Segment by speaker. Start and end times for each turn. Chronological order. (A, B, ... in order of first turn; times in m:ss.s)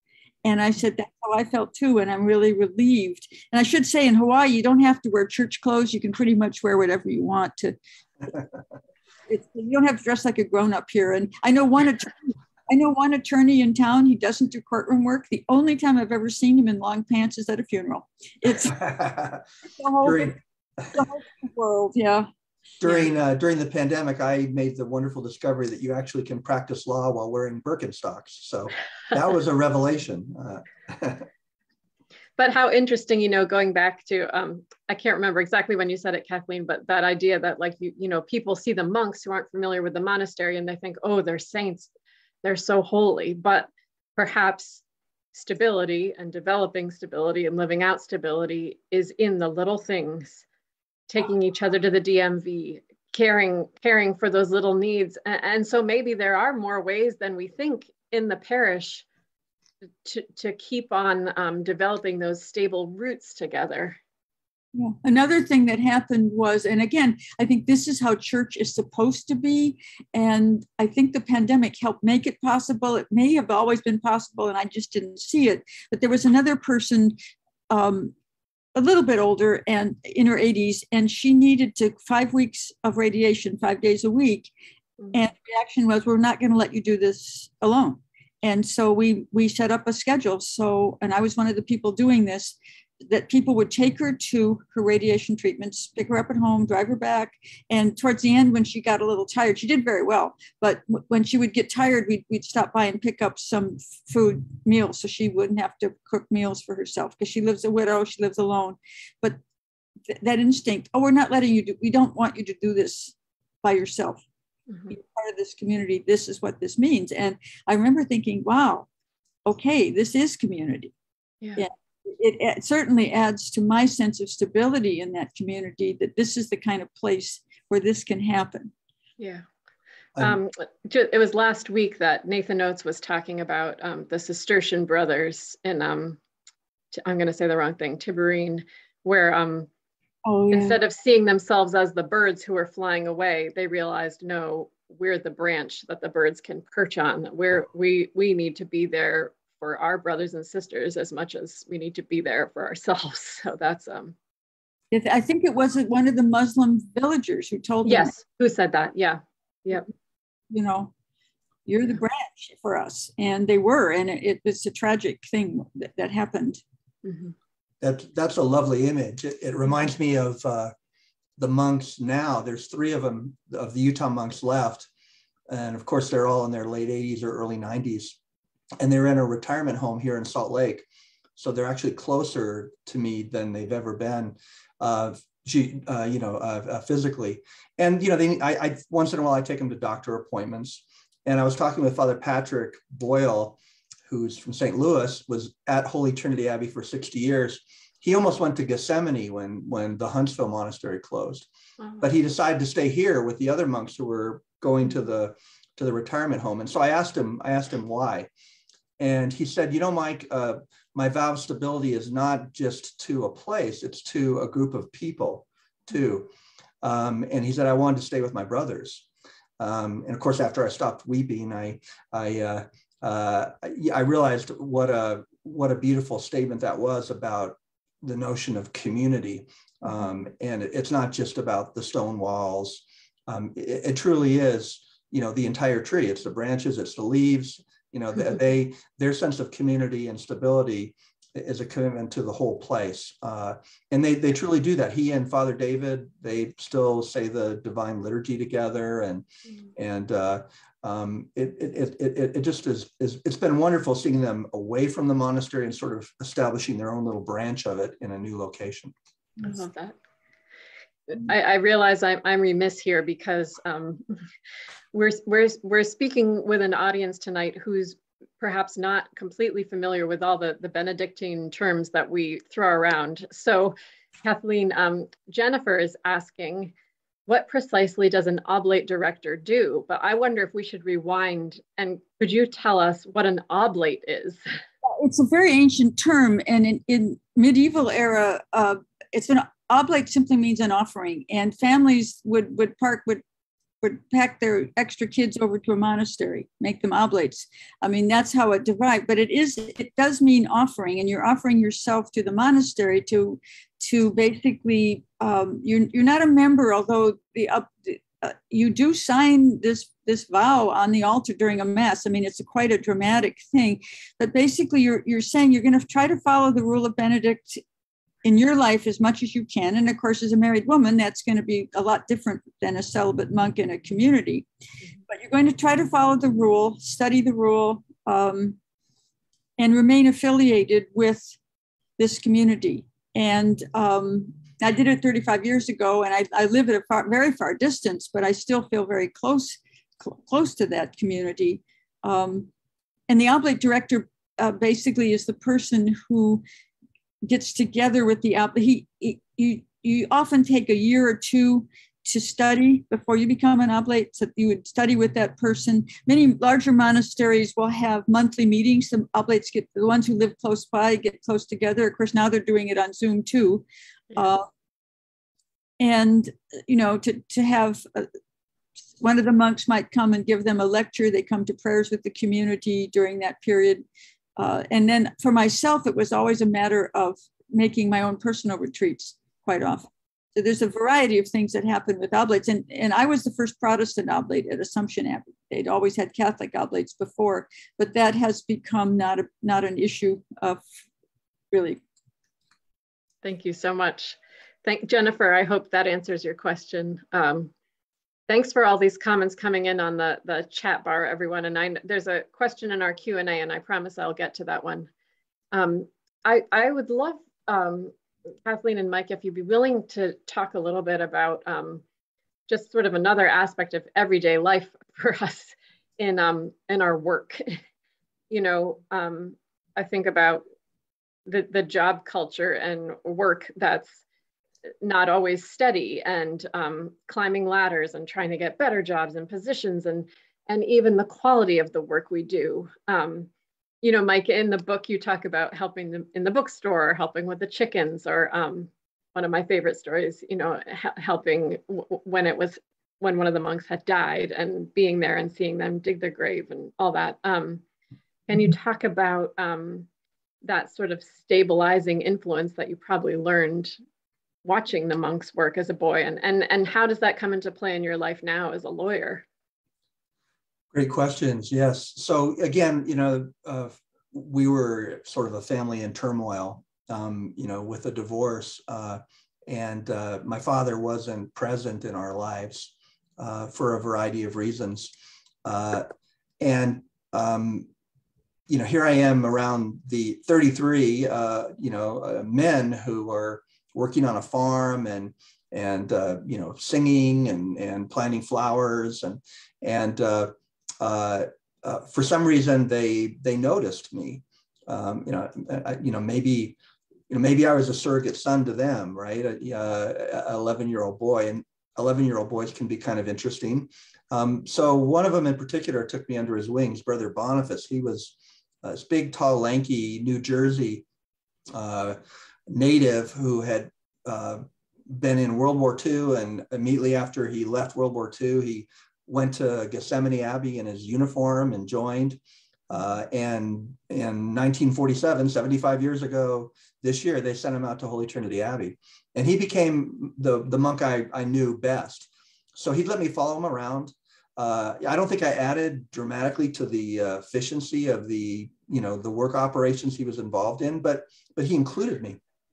0:00.4-0:07.8 A
0:09.3-0:18.8 A
0:18.6-0:19.4 B
0:19.8-0:20.4 A
0:20.0-0:21.0 B
0:20.9-0:22.3 A
0:22.8-0:31.3 B
0:32.4-0:41.9 C
0:42.4-0:50.4 C
0:51.1-0:59.0 C
1:00.0-1:04.0 C
1:04.7-1:17.2 A
1:17.7-1:18.1 A
1:18.7-1:24.5 A
1:25.1-1:49.4 A
1:50.1-1:54.2 A
1:54.9-1:58.9 A
1:59.4-2:00.9 A
2:01.6-2:08.7 A
2:09.2-2:09.4 C
2:10.2-2:16.2 C
2:16.9-2:19.7 C
2:20.2-2:20.8 A
2:20.5-2:34.1 C
2:34.9-2:38.1 A
2:37.8-2:39.9 C
2:40.5-2:40.9 A
2:41.6-2:46.6 A
2:47.0-2:47.3 C
2:47.8-2:50.7 B
2:51.4-2:54.9 B
2:55.5-2:58.2 B
2:58.8-3:21.5 B
3:22.0-3:28.3 B
3:29.0-3:36.3 B
3:36.8-3:39.1 B
3:39.6-4:18.9 B
4:19.4-4:20.0 C
4:21.1-4:24.0 C
4:24.9-4:36.7 C
4:37.3-4:44.4 C
4:44.8-4:53.2 A
4:53.8-5:17.6 A
5:18.2-5:24.5 A
5:25.1-5:28.6 A
5:29.6-5:31.4 A
5:32.0-5:42.5 A
5:43.1-5:46.4 A
5:47.2-6:03.6 A
6:04.2-6:04.4 A
6:05.8-6:08.1 A
6:09.0-6:13.8 A
6:14.4-6:30.6 A
6:31.5-6:31.8 A
6:33.2-6:37.5 C
6:38.3-6:44.9 C
6:45.5-6:47.9 C
6:48.4-6:51.8 C
6:52.5-6:57.6 C
6:58.3-7:00.4 C
7:01.2-7:04.0 C
7:04.8-7:13.3 C
7:13.8-7:27.6 C
7:28.3-7:29.9 C
7:30.4-7:33.7 C
7:34.4-7:39.2 C
7:40.7-7:54.9 B
7:55.4-7:55.9 B
7:56.4-7:57.7 B
7:58.5-8:16.6 B
8:17.1-8:30.8 B
8:31.5-9:02.2 B